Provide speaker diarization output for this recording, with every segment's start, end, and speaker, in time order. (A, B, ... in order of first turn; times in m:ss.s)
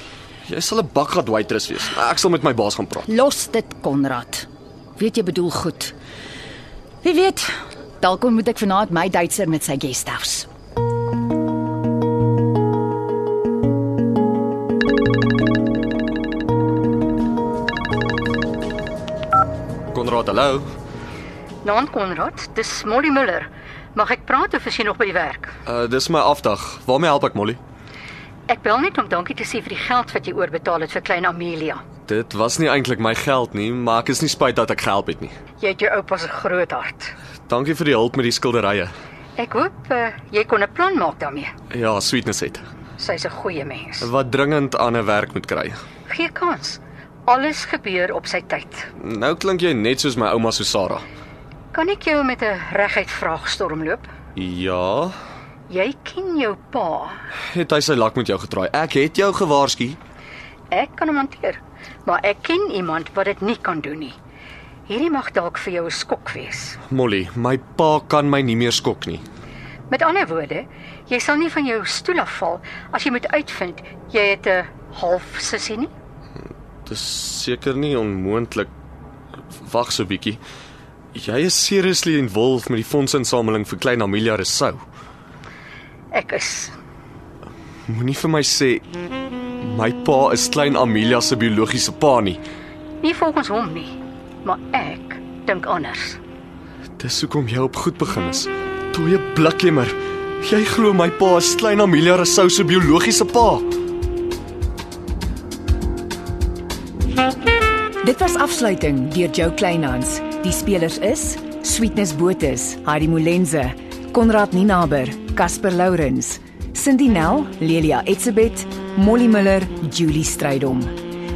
0:00.4-0:03.1 A
0:03.1-0:04.4 B
0:05.0-0:05.9 B
0:07.0-0:10.5 B
0:19.9-0:20.7 A
0:21.6-0:25.5 C
0:25.6-0:27.6 A
0:28.5-0:31.8 C
0:32.1-0:35.3 A
0:35.6-0:37.1 C
0:37.5-0:38.9 A
0:39.4-0:41.5 C
0:41.7-0:42.6 A
0:43.0-0:44.1 C
0:44.0-0:45.8 A
0:46.1-0:48.8 C
0:49.0-0:51.0 A
0:51.7-0:54.0 C
0:54.4-0:55.2 A
0:55.7-0:57.1 C
0:57.5-1:00.0 A
1:00.7-1:04.1 C
1:04.9-1:06.8 C
1:06.9-1:09.2 A
1:09.9-1:15.9 C
1:16.9-1:18.7 A
1:19.5-1:20.4 A
1:21.1-1:24.8 A
1:26.1-1:26.7 C
1:27.9-1:28.8 A
1:29.6-1:32.4 A
1:33.0-1:33.9 C
1:34.4-1:36.2 C
1:37.0-1:43.6 A
1:48.0-2:00.9 D